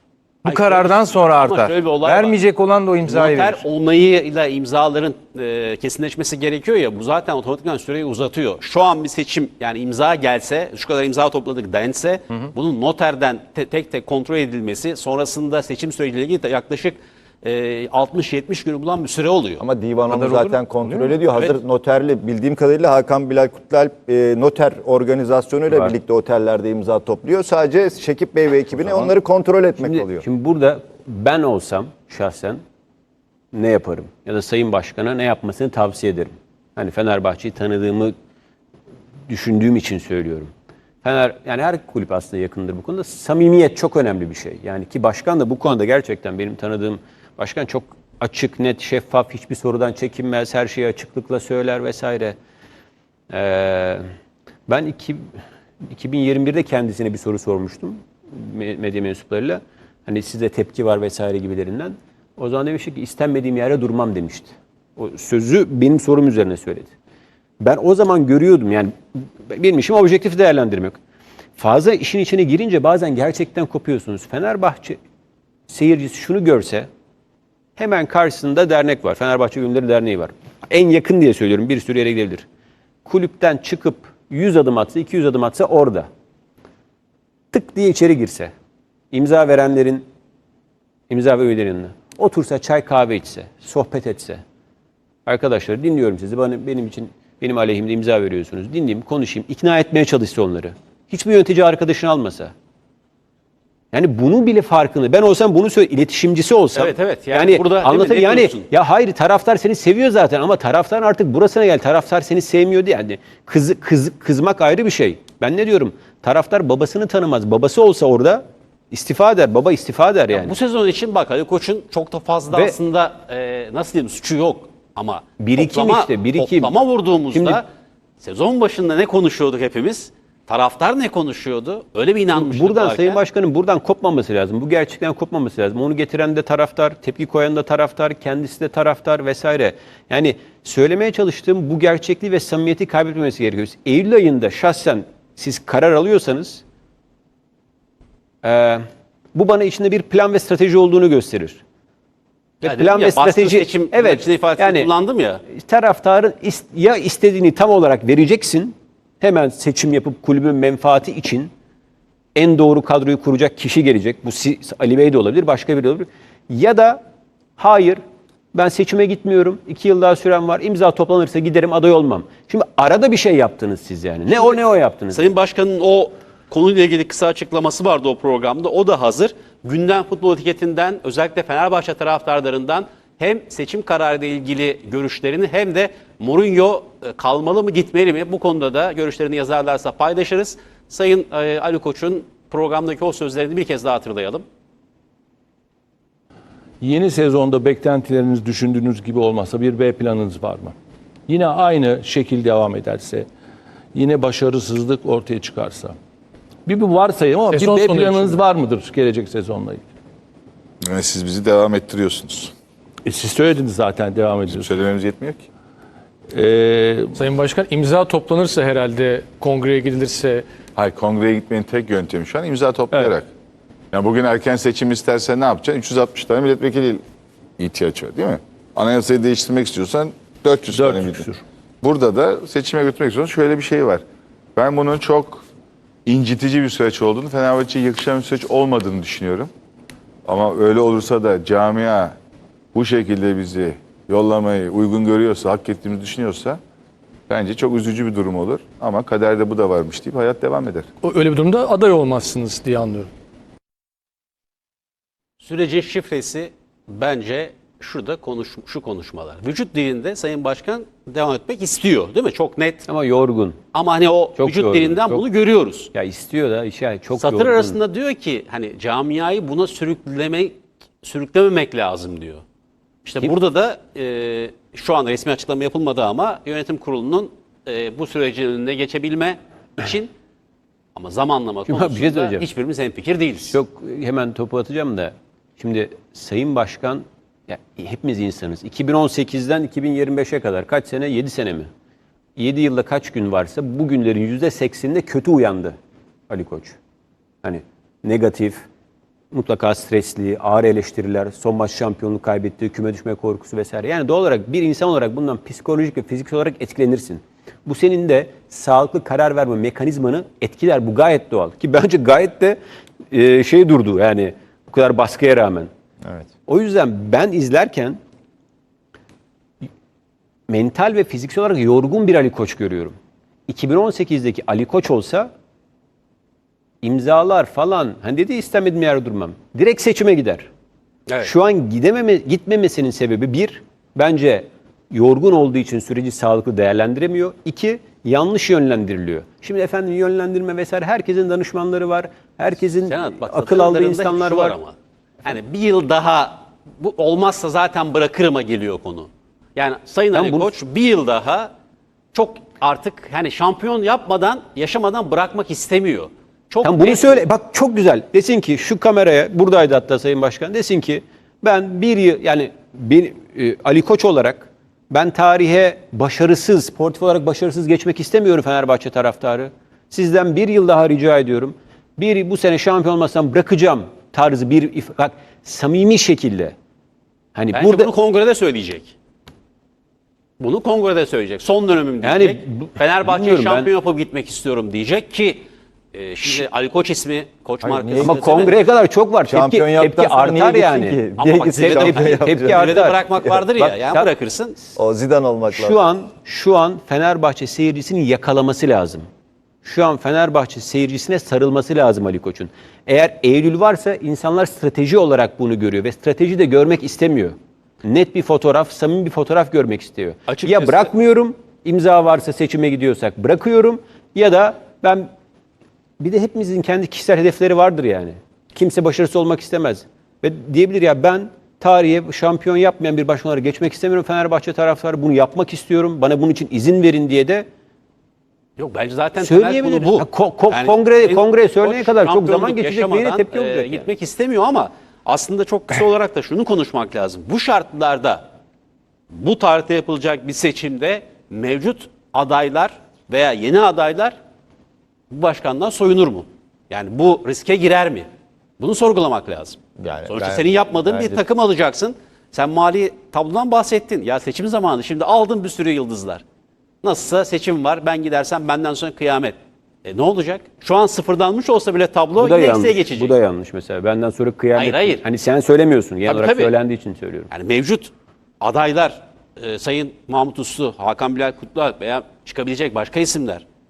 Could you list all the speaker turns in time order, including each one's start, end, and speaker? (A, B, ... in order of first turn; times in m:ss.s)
0:00.4-0:03.6 A
0:00.4-0:02.4 B
0:03.1-0:19.6 B
0:19.6-0:30.2 C
0:20.1-0:21.2 A
0:28.8-0:29.1 D
0:29.8-0:32.6 D
0:33.5-0:38.1 D
0:39.3-0:40.5 D
0:41.0-0:52.4 D
0:53.3-0:54.1 D
0:54.7-0:55.2 D
0:55.9-1:06.9 D
1:07.6-1:11.0 D
1:11.6-1:15.0 D
1:15.7-1:16.9 D
1:17.8-1:22.5 D
1:23.0-1:26.1 D
1:27.5-1:28.5 D
1:29.1-1:30.0 D
1:31.1-1:34.4 D
1:35.3-1:42.5 D
1:43.9-2:00.6 D
1:46.8-1:48.7 B
2:00.3-2:07.6 B
2:02.5-2:02.8 D
2:05.4-2:06.7 D
2:07.3-2:07.6 D
2:08.2-2:13.2 B
2:12.4-2:26.6 D
2:28.4-2:31.6 D
2:32.6-2:34.9 D
2:32.6-2:35.4 B
2:35.5-2:41.5 D
2:42.4-2:47.0 D
2:47.6-2:48.0 D
2:48.5-2:55.2 D
2:55.1-3:14.4 B
3:16.8-3:17.6 A
3:16.8-3:20.7 E
3:21.3-3:23.3 E
3:23.9-3:26.0 E
3:26.7-3:29.8 E
3:27.3-3:28.4 A
3:30.8-3:32.5 F
3:33.0-3:34.6 E
3:34.5-3:35.4 F
3:36.3-3:38.6 E
3:37.3-3:40.5 G
3:40.8-3:43.3 F
3:43.9-3:47.0 F
3:47.6-3:51.3 F
3:50.7-3:51.4 E
3:51.8-3:54.0 F
3:54.6-3:55.4 F
3:56.1-3:59.5 F
4:00.3-4:02.2 F
4:02.7-4:06.6 F
4:07.3-4:10.9 F
4:11.1-4:13.1 G
4:15.4-4:22.8 B
4:22.9-4:23.6 D
4:23.7-4:25.9 B
4:24.4-4:25.2 D
4:25.9-4:27.8 D
4:27.2-4:32.4 B
4:33.0-4:40.1 B
4:41.0-4:43.6 B
4:41.7-4:42.4 D
4:43.5-4:51.7 D
4:52.4-4:55.8 D
4:56.3-4:56.8 D
4:57.4-4:58.6 D
4:59.3-5:12.6 D
5:13.1-5:15.7 D
5:16.5-5:18.0 D
5:20.5-5:23.0 D
5:23.5-5:25.3 D
5:26.8-5:30.5 D
5:31.2-5:44.6 D
5:42.9-5:51.5 B
5:50.1-5:50.5 D
5:52.1-5:57.2 B
5:56.6-6:16.5 D
6:17.4-6:17.9 D
6:17.5-6:18.9 B
6:20.4-6:28.7 B
6:22.0-6:23.7 D
6:27.6-6:28.5 C
6:28.0-6:33.0 D
6:29.3-6:33.4 C
6:31.2-6:34.6 B
6:33.6-6:34.1 D
6:34.8-6:35.8 C
6:35.5-6:39.1 D
6:39.6-6:55.1 D
6:50.3-6:50.9 B
6:56.0-7:07.5 D
7:08.6-7:18.2 B
7:09.2-7:13.9 D
7:19.1-7:24.2 B
7:25.1-7:28.1 B
7:28.6-7:36.2 B
7:29.8-7:31.2 C
7:36.8-7:43.2 B
7:42.2-7:47.3 D
7:44.6-7:45.0 B
7:46.1-7:46.5 B
7:47.3-7:53.4 B